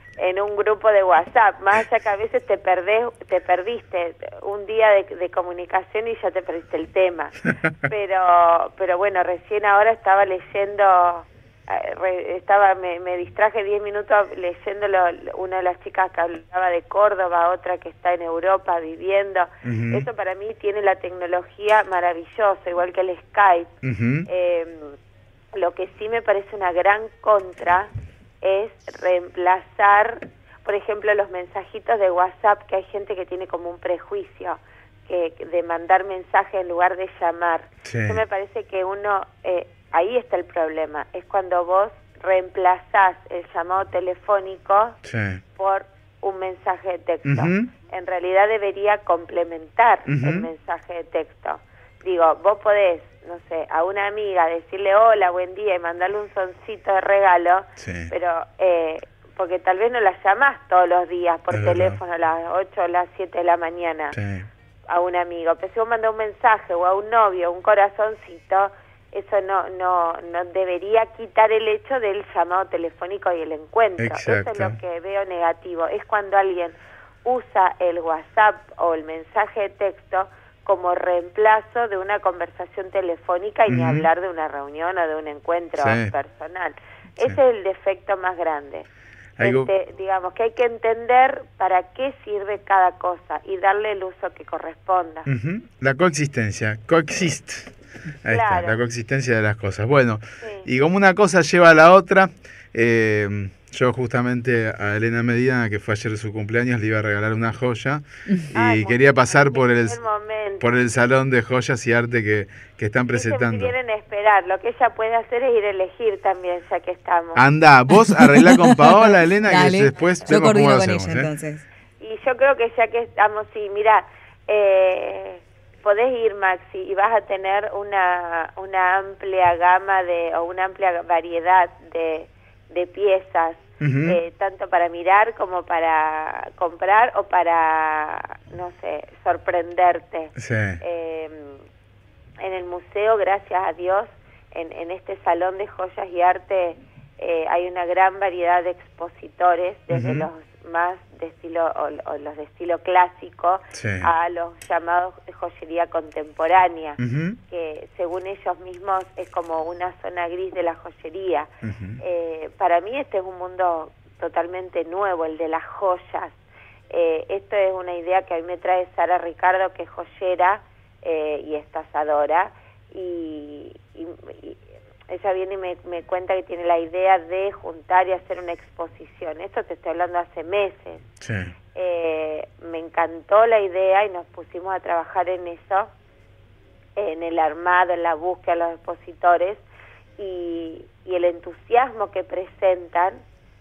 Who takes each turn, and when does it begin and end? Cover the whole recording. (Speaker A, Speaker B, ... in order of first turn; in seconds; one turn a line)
Speaker A: 0.2-23.7
Speaker B: 19.6-20.1
Speaker B: 23.8-24.3
Speaker A: 24.3-24.9
Speaker A: 25.5-27.9
Speaker A: 28.4-45.0
Speaker B: 37.8-38.2
Speaker B: 45.0-45.4
Speaker A: 45.5-64.2
Speaker B: 47.2-47.7
Speaker B: 50.1-50.5
Speaker B: 57.8-58.1
Speaker B: 61.5-62.0
Speaker B: 64.1-64.5
Speaker A: 64.9-88.9
Speaker B: 74.0-74.8
Speaker B: 83.7-84.1
Speaker B: 85.8-86.1
Speaker B: 89.4-89.7
Speaker A: 89.4-95.3
Speaker B: 95.3-97.7
Speaker B: 98.2-110.0
Speaker A: 98.3-98.8
Speaker A: 100.4-100.7
Speaker A: 108.5-110.7
Speaker B: 110.6-113.7
Speaker A: 113.1-117.4
Speaker B: 117.3-121.3
Speaker C: 119.4-121.6
Speaker A: 122.0-141.6
Speaker B: 133.8-134.2
Speaker B: 140.4-140.8
Speaker A: 142.4-157.0
Speaker B: 149.9-150.3
Speaker B: 153.7-154.1
Speaker B: 157.0-157.4
Speaker A: 157.5-166.3
Speaker B: 161.6-162.0
Speaker A: 166.9-181.0
Speaker B: 181.2-181.5
Speaker A: 181.7-185.9
Speaker A: 186.9-189.6
Speaker A: 190.2-193.2